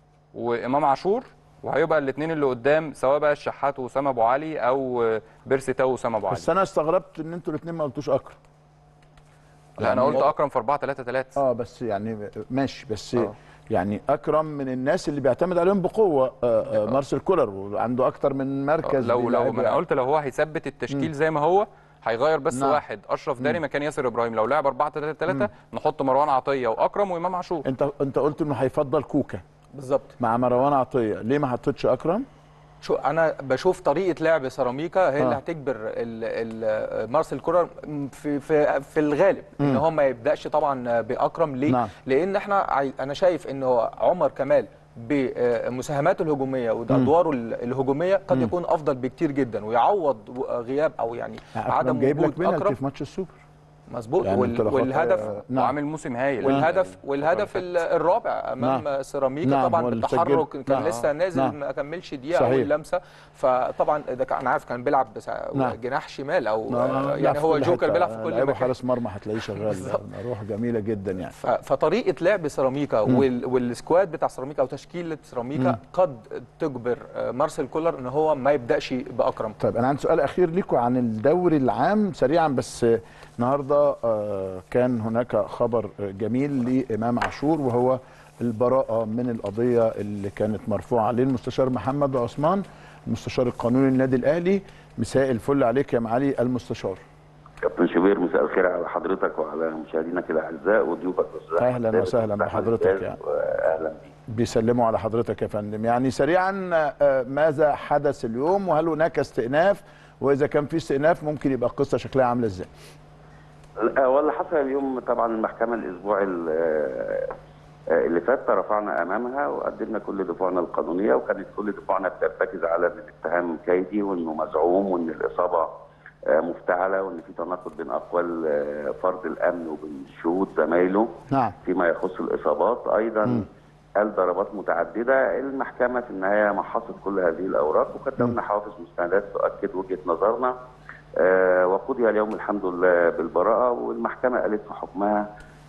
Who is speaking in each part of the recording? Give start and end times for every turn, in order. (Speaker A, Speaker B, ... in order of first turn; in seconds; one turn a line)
Speaker A: 0.3-6.5
Speaker B: 6.3-8.4
Speaker B: 9.8-10.3
Speaker A: 9.8-11.4
Speaker B: 11.4-19.8
Speaker A: 18.8-27.7
Speaker B: 22.5-22.8
Speaker B: 27.6-29.4
Speaker C: 29.7-30.1
Speaker B: 30.2-32.3
Speaker C: 32.8-52.8
Speaker B: 39.6-39.8
Speaker B: 51.5-53.4
Speaker C: 53.9-55.3
Speaker B: 54.2-55.7
Speaker A: 55.2-57.7
Speaker C: 56.4-68.7
Speaker B: 59.4-61.5
Speaker A: 60.8-61.1
Speaker B: 62.3-62.7
Speaker B: 66.7-71.3
Speaker C: 69.5-70.0
Speaker C: 71.4-79.6
Speaker B: 79.6-97.0
Speaker D: 97.6-104.1
Speaker B: 101.6-103.2
Speaker B: 104.3-112.7
Speaker D: 113.8-117.3
Speaker D: 117.9-125.7
Speaker D: 126.3-131.1
Speaker B: 131.3-131.6
Speaker D: 131.6-140.5
Speaker D: 141.2-145.3